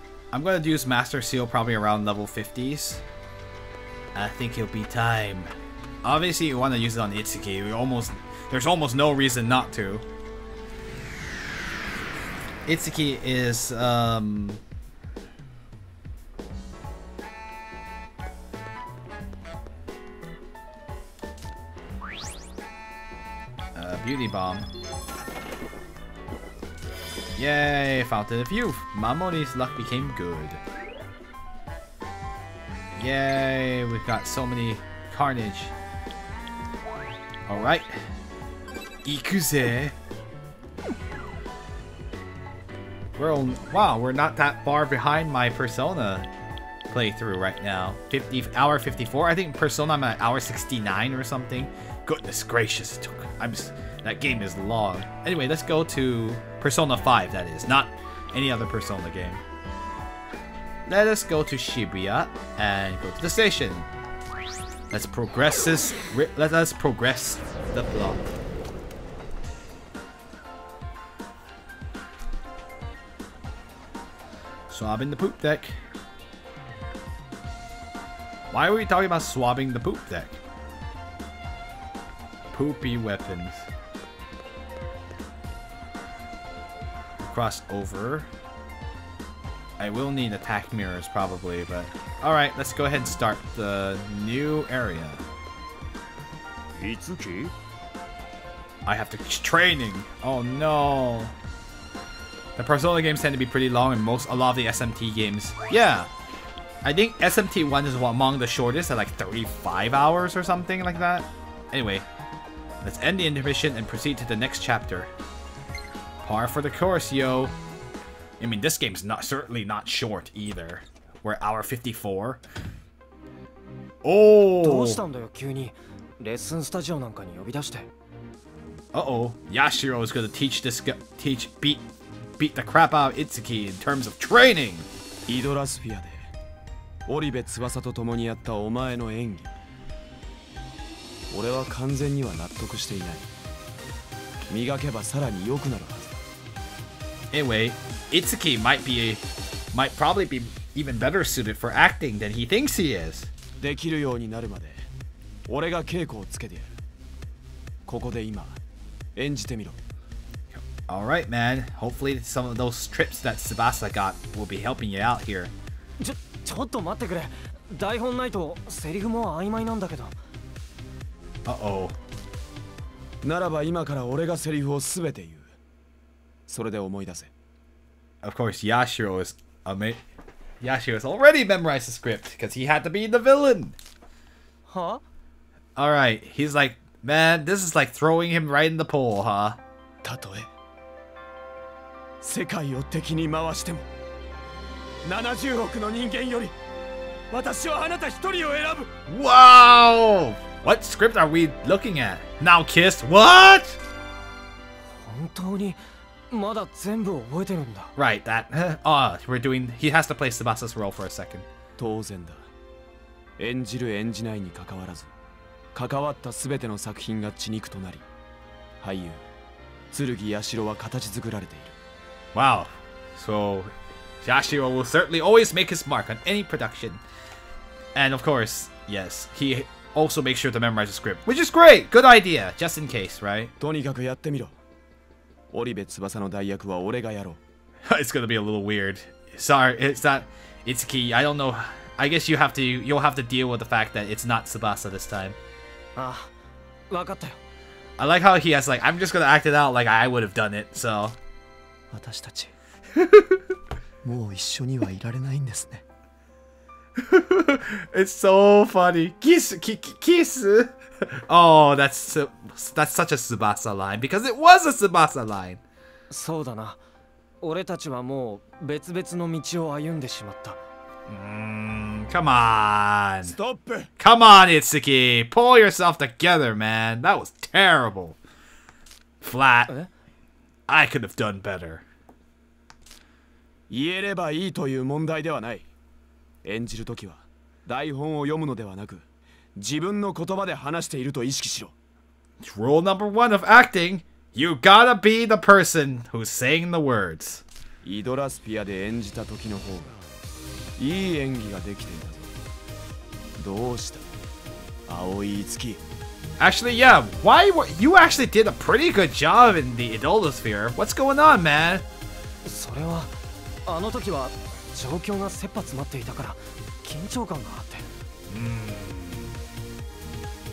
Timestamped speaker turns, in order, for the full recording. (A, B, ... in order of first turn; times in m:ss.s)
0:00.3-0:03.0 A
0:04.1-0:05.5 A
0:06.0-0:10.0 A
0:12.6-0:14.6 A
0:23.7-0:24.7 A
0:27.4-0:30.6 A
0:33.0-0:35.7 A
0:37.5-0:38.1 A
0:39.0-0:39.9 A
0:43.2-0:46.3 A
0:46.9-0:59.4 A
1:00.8-1:03.9 A
1:04.9-1:08.2 A
1:14.7-1:15.8 A
1:18.5-1:20.4 A
1:22.5-1:23.6 A
1:27.2-1:28.3 A
1:29.8-1:35.2 A
1:36.8-1:37.5 B
1:38.8-1:41.3 A
1:42.6-1:46.1 A
1:46.8-1:52.0 A
1:52.8-1:55.1 A
1:56.2-1:57.5 A
1:58.4-2:02.4 A
2:04.0-2:05.0 A
2:04.6-2:07.9 C
2:08.9-2:11.8 A
2:12.4-2:14.9 A
2:15.3-2:16.3 B
2:17.0-2:19.5 B
2:21.3-2:23.3 B
2:24.5-2:26.2 B
2:27.3-2:33.3 A
2:33.6-2:34.9 B
2:35.4-2:36.7 B
2:37.9-2:38.6 B
2:39.1-2:39.8 B
2:40.5-2:45.5 A
2:46.0-2:50.1 C
2:51.4-2:51.9 A
2:53.2-2:55.5 B
2:56.5-2:57.3 B
2:58.2-3:00.0 A
3:00.6-3:03.8 A
3:04.7-3:05.0 C
3:05.8-3:09.6 A
3:10.0-3:10.5 B
3:12.2-3:13.9 B
3:15.0-3:16.5 B
3:17.3-3:18.9 B
3:19.1-3:23.8 A
3:24.8-3:25.8 C
3:26.3-3:27.9 C
3:28.0-3:31.4 A
3:31.8-3:32.5 B
3:33.4-3:35.1 B
3:35.7-3:38.0 B
3:38.8-3:39.2 B
3:39.9-3:41.7 B
3:42.3-3:47.0 A
3:47.9-3:53.5 A
3:53.6-3:54.5 B
3:55.5-3:57.4 B
3:57.9-4:05.4 A
4:06.0-4:06.3 C
4:06.9-4:07.4 C
4:08.0-4:11.2 A
4:11.9-4:12.5 B
4:12.9-4:13.5 A
4:14.0-4:15.8 B
4:17.0-4:25.6 A
4:26.1-4:26.8 C
4:27.4-4:30.6 C
4:31.1-4:33.4 A
4:33.2-4:33.9 B
4:34.0-4:38.2 A
4:39.2-4:39.7 A
4:40.7-4:41.8 A
4:43.7-4:45.6 B
4:46.4-4:49.0 B
4:49.6-4:51.7 B
4:52.4-4:57.4 A
4:57.8-5:00.0 B
5:00.8-5:02.3 B
5:03.4-5:04.1 B
5:04.9-5:05.8 B
5:06.4-5:11.8 A
5:12.4-5:13.1 C
5:13.7-5:17.8 C
5:18.3-5:19.3 A